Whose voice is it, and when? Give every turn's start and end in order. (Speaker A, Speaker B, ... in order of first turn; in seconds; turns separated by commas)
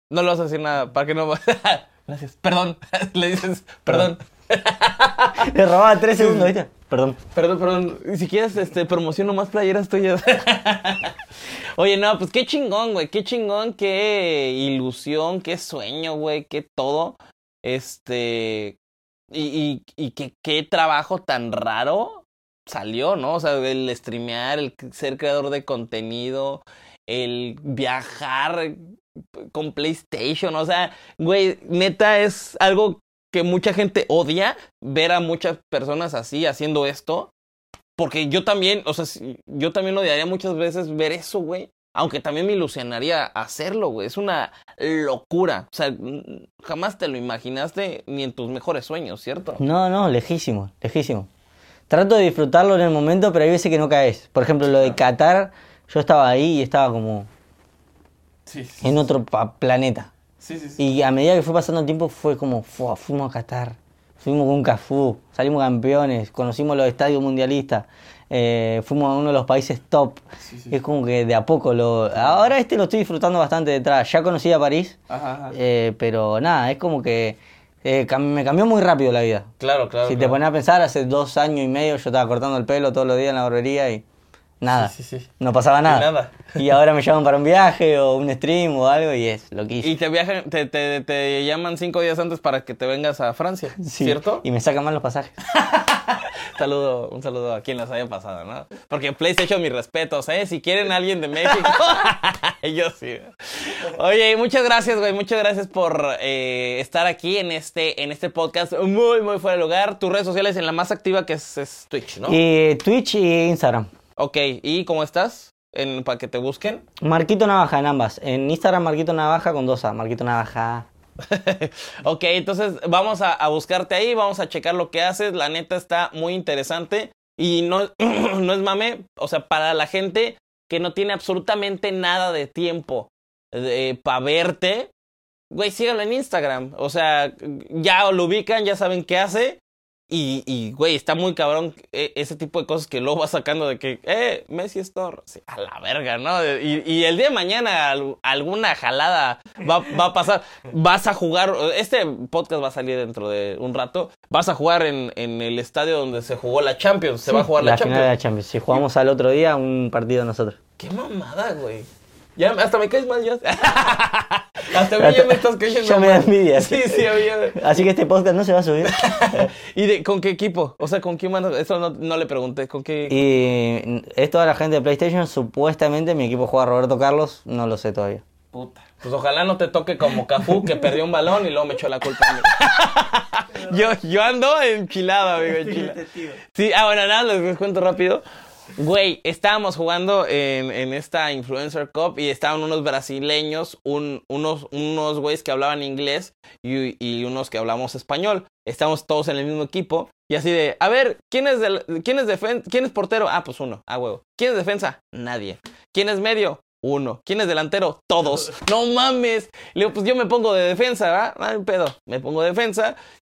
Speaker A: 0.1-5.5, Speaker B: 5.4-7.2, Speaker A: 6.1-6.5, Speaker A: 7.3-11.2, Speaker A: 11.8-18.8, Speaker A: 19.3-28.8, Speaker A: 29.4-37.3, Speaker A: 38.0-49.6, Speaker B: 49.6-51.3, Speaker B: 51.9-57.3, Speaker A: 54.6-55.0, Speaker A: 58.5-59.0, Speaker B: 58.8-60.1, Speaker A: 60.4-60.8, Speaker B: 60.8-75.0, Speaker A: 70.5-70.7, Speaker A: 75.1-75.5, Speaker B: 75.5-79.5, Speaker A: 79.6-80.4, Speaker B: 80.0-84.0, Speaker B: 84.6-89.9, Speaker A: 84.7-85.3, Speaker A: 85.8-86.7, Speaker A: 89.8-94.4, Speaker B: 93.8-95.3, Speaker A: 95.5-112.4, Speaker B: 112.2-113.9, Speaker A: 114.2-116.8, Speaker B: 117.0-120.9, Speaker A: 121.2-134.9, Speaker A: 135.5-158.1, Speaker B: 157.3-160.6, Speaker A: 160.8-167.7, Speaker B: 164.9-169.5, Speaker A: 168.8-173.2, Speaker B: 173.1-178.2, Speaker A: 178.5-188.2, Speaker B: 185.7-186.2, Speaker A: 188.8-213.0